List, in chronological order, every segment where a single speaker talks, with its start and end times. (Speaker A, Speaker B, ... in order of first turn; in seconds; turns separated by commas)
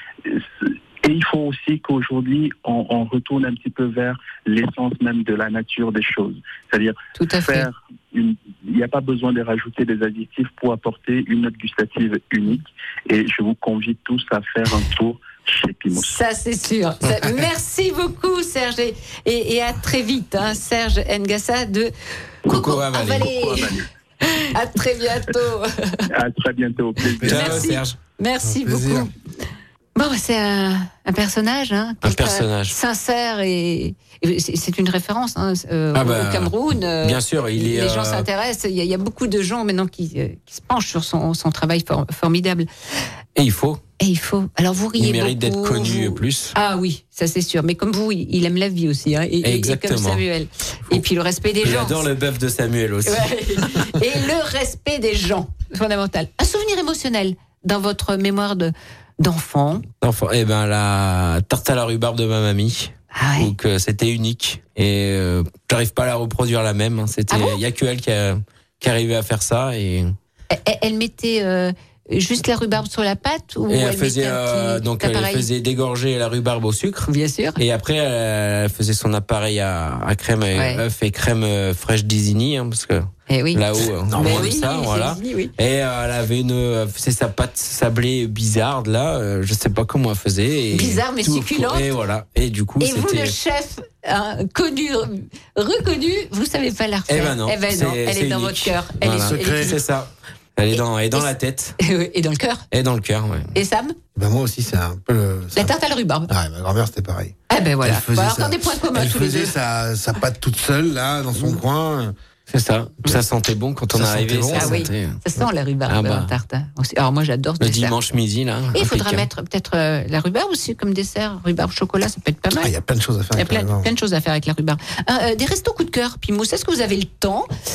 Speaker A: 0.2-16.2, Speaker B: 7.2-7.7, Speaker B: 15.9-21.9, Speaker C: 22.5-23.8, Speaker B: 22.5-26.1, Speaker A: 23.6-23.9, Speaker A: 26.1-27.7, Speaker D: 27.1-27.7, Speaker C: 27.2-28.0, Speaker B: 27.2-29.1, Speaker D: 28.4-29.1, Speaker B: 30.0-42.7, Speaker C: 32.0-32.8, Speaker C: 35.9-38.3, Speaker C: 43.4-43.8, Speaker B: 44.0-52.1, Speaker C: 45.0-46.5, Speaker C: 49.4-50.2, Speaker C: 51.6-53.7, Speaker B: 53.0-59.9, Speaker C: 60.0-70.2, Speaker B: 63.1-63.5, Speaker B: 67.3-67.6, Speaker B: 70.5-75.5, Speaker C: 73.7-93.4, Speaker B: 77.1-77.6, Speaker B: 80.5-80.8, Speaker B: 83.3-85.5, Speaker D: 83.8-84.5, Speaker B: 90.7-91.9, Speaker B: 92.8-99.8, Speaker C: 97.1-101.8, Speaker D: 99.2-99.8, Speaker B: 100.7-102.7, Speaker C: 102.7-103.5, Speaker B: 103.5-104.0, Speaker D: 104.2-105.8, Speaker B: 105.5-106.3, Speaker D: 106.3-112.2, Speaker B: 107.5-109.5, Speaker C: 112.5-115.2, Speaker D: 113.9-114.9, Speaker B: 114.5-118.0, Speaker C: 115.9-116.3, Speaker C: 117.6-119.3, Speaker B: 118.7-122.7, Speaker D: 122.5-123.9, Speaker B: 123.3-127.5